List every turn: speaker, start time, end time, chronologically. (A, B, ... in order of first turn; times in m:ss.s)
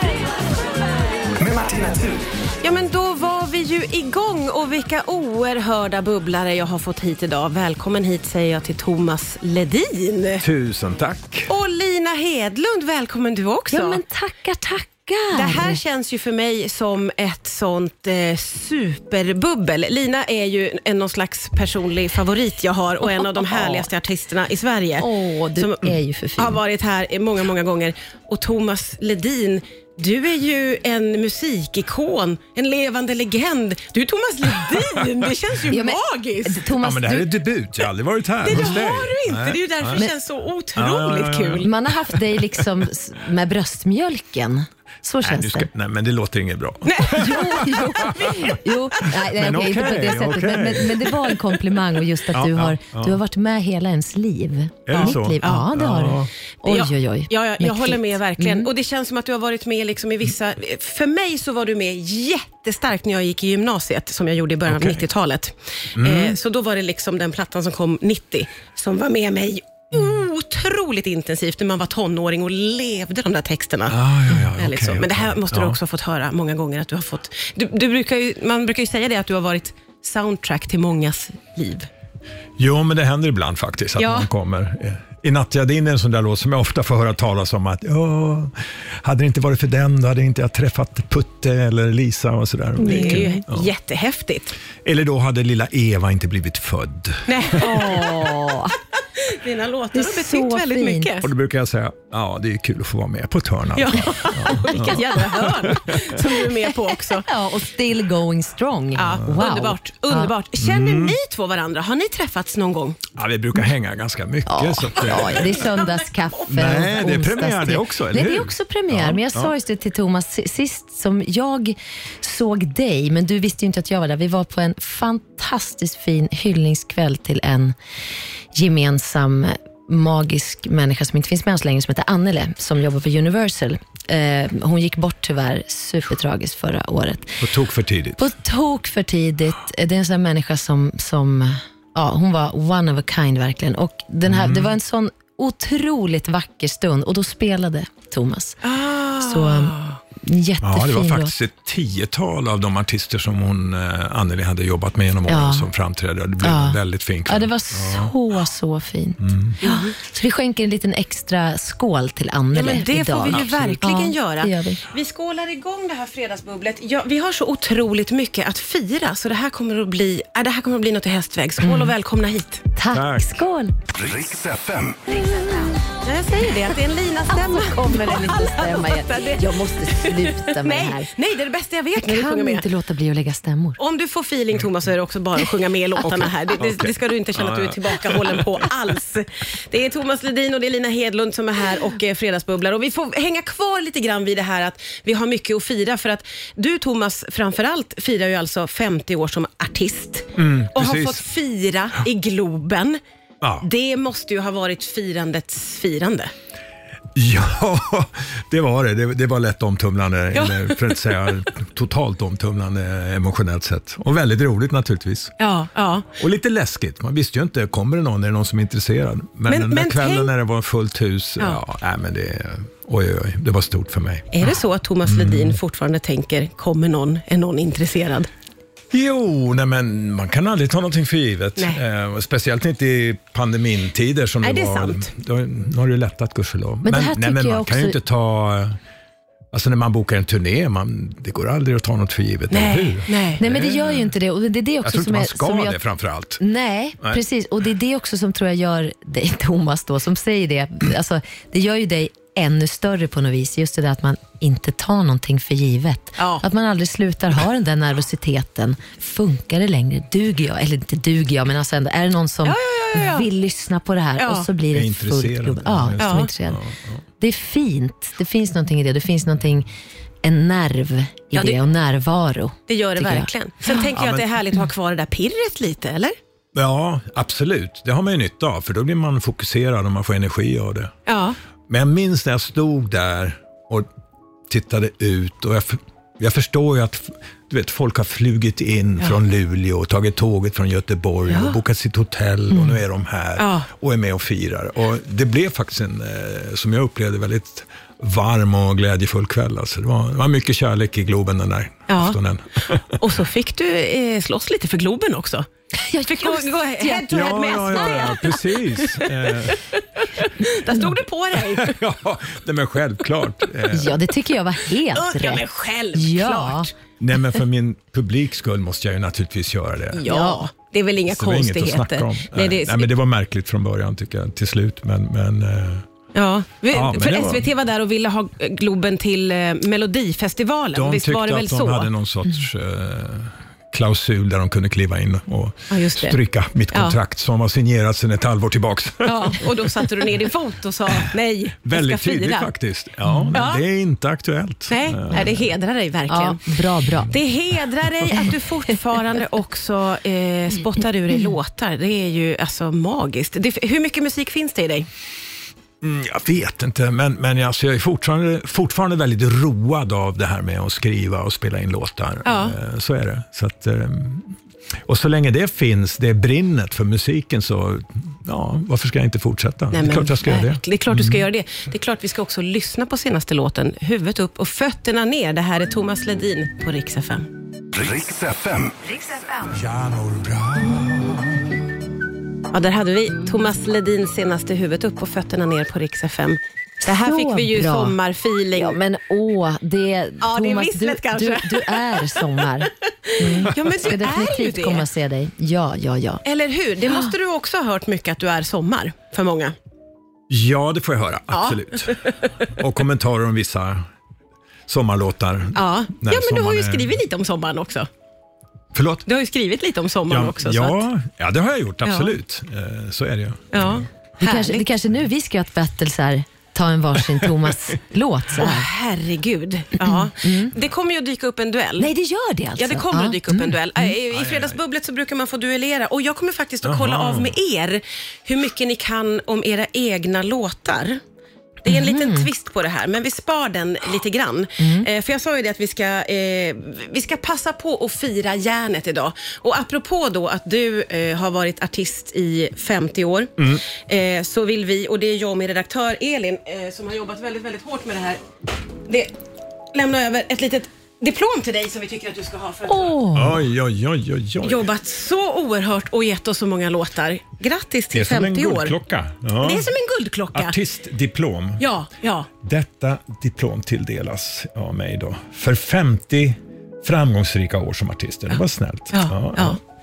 0:01.4-0:02.2 A
0:02.6-0:10.4 B
0:10.4-0:11.5 C
0:11.5-0:14.0 B
0:13.7-0:15.8 D
0:15.3-0:36.6 B
0:23.6-0:23.8 D
0:25.0-0:26.6 D
0:35.7-0:37.3 D
0:36.8-0:40.1 C
0:38.4-0:41.7 B
0:40.8-0:42.1 C
0:41.6-0:45.7 D
0:45.2-0:48.6 C
0:46.8-0:47.6 B
0:47.1-0:58.7 D
0:49.2-0:51.2 C
0:52.3-0:53.2 C
0:54.8-0:56.3 C
0:54.9-0:55.7 B
0:56.6-1:14.0 B
1:04.7-1:05.0 C
1:06.0-1:06.4 C
1:13.9-1:15.8 C
1:14.5-1:21.9 B
1:22.6-1:33.7 C
1:24.0-1:24.3 B
1:32.8-1:34.5 B
1:32.8-1:33.3 D
1:34.8-1:37.8 C
1:37.3-1:38.3 B
1:37.6-1:38.8 D
1:39.2-1:41.3 B
1:39.9-1:41.1 D
1:41.2-1:46.2 C
1:43.8-1:47.3 B
1:46.8-1:50.3 D
1:48.9-1:53.0 B
1:50.6-1:51.2 C
1:53.2-1:55.6 C
1:54.5-2:07.8 D
1:55.0-1:56.8 B
1:56.5-1:59.5 C
2:08.5-2:17.4 D
2:17.4-2:18.3 C
2:18.2-2:28.6 D
2:24.3-2:24.7 C
2:28.6-2:30.0 B
2:29.2-2:31.3 D
2:30.6-2:38.1 C
2:35.3-2:35.7 D
2:36.4-2:44.8 D
2:39.2-2:39.6 C
2:39.6-2:39.9 B
2:42.5-2:52.6 B
2:43.3-2:43.7 C
2:51.6-2:51.9 D
2:52.7-2:53.8 D
2:52.9-2:53.4 C
2:53.9-2:55.4 A
2:55.1-2:55.8 D
2:56.0-3:02.6 B
2:57.3-3:01.1 D
3:02.0-3:03.8 D
3:03.8-3:23.0 B
3:06.6-3:08.6 C
3:20.4-3:21.2 C
3:23.4-3:23.6 C
3:23.6-3:26.3 B
3:27.1-3:35.3 C
3:30.3-3:31.0 B
3:35.4-3:36.1 B
3:36.2-3:44.4 C
3:39.5-3:40.3 B
3:44.3-3:48.3 B
3:45.1-3:45.6 C
3:48.9-3:58.8 C
3:54.4-3:55.1 B
3:56.8-3:58.0 D
3:59.5-4:04.1 C
4:02.5-4:03.4 B
4:03.4-4:05.8 D
4:04.8-4:06.4 C
4:06.4-4:26.6 D
4:16.2-4:16.4 B
4:22.4-4:23.3 B
4:24.2-4:24.5 B
4:24.7-4:27.0 C
4:26.0-4:26.3 B
4:27.2-4:29.7 D
4:30.2-4:33.7 D
4:32.7-4:36.2 B
4:33.9-4:34.3 C
4:36.5-4:40.9 C
4:41.0-4:41.4 B
4:41.7-4:43.9 C
4:44.5-5:03.0 C
4:51.3-4:51.6 B
4:53.4-4:53.7 B
5:01.9-5:02.2 B
5:03.0-5:05.5 B
5:05.8-5:08.0 D
5:06.0-5:11.8 B
5:07.1-5:09.6 C
5:11.4-5:14.0 C
5:13.7-5:15.4 D
5:14.9-5:16.7 B
5:15.9-5:16.7 D
5:17.0-5:20.0 C
5:19.9-5:22.9 B
5:20.0-5:20.4 D
5:21.1-5:25.8 C
5:26.1-5:31.9 B
5:26.7-5:27.5 C
5:30.7-5:39.9 C
5:35.7-5:36.2 B
5:36.7-5:37.0 B
5:39.0-5:42.5 B
5:41.6-5:45.4 C
5:43.0-5:43.4 D
5:43.3-5:43.6 B
5:44.7-5:46.4 B
5:46.1-5:47.2 D
5:47.1-5:54.9 B
5:55.8-6:11.2 C
6:02.2-6:02.6 B
6:09.7-6:17.3 B
6:17.7-6:18.9 A
6:19.5-6:21.5 C
6:22.5-6:28.8 B
6:26.8-6:28.0 D
6:28.5-6:36.2 D
6:30.2-6:34.8 B
6:36.2-6:39.5 B
6:36.8-6:37.1 D
6:40.3-6:43.9 C
6:41.3-6:42.2 B
6:44.7-6:47.0 C
6:45.5-6:47.9 B
6:48.7-6:49.0 C
6:49.0-6:50.8 B
6:50.1-6:53.8 C
6:51.8-6:52.1 B
6:53.5-6:54.7 B
6:54.2-6:58.7 D
6:58.4-7:01.9 B
6:59.8-7:00.5 D
7:01.8-7:03.9 D
7:02.6-7:11.0 B
7:04.1-7:04.6 C
7:06.6-7:07.3 C
7:11.6-7:28.2 B
7:11.7-7:12.3 D
7:14.6-7:14.9 D
7:23.4-7:23.6 C
7:28.8-7:29.1 B
7:29.7-7:33.0 B
7:32.7-7:33.4 D
7:33.1-7:34.7 C
7:34.4-7:38.7 B
7:37.9-7:39.7 C
7:39.4-7:40.6 B
7:40.3-7:41.6 C
7:41.6-7:42.3 B
7:42.4-7:49.6 C
7:48.9-7:49.6 B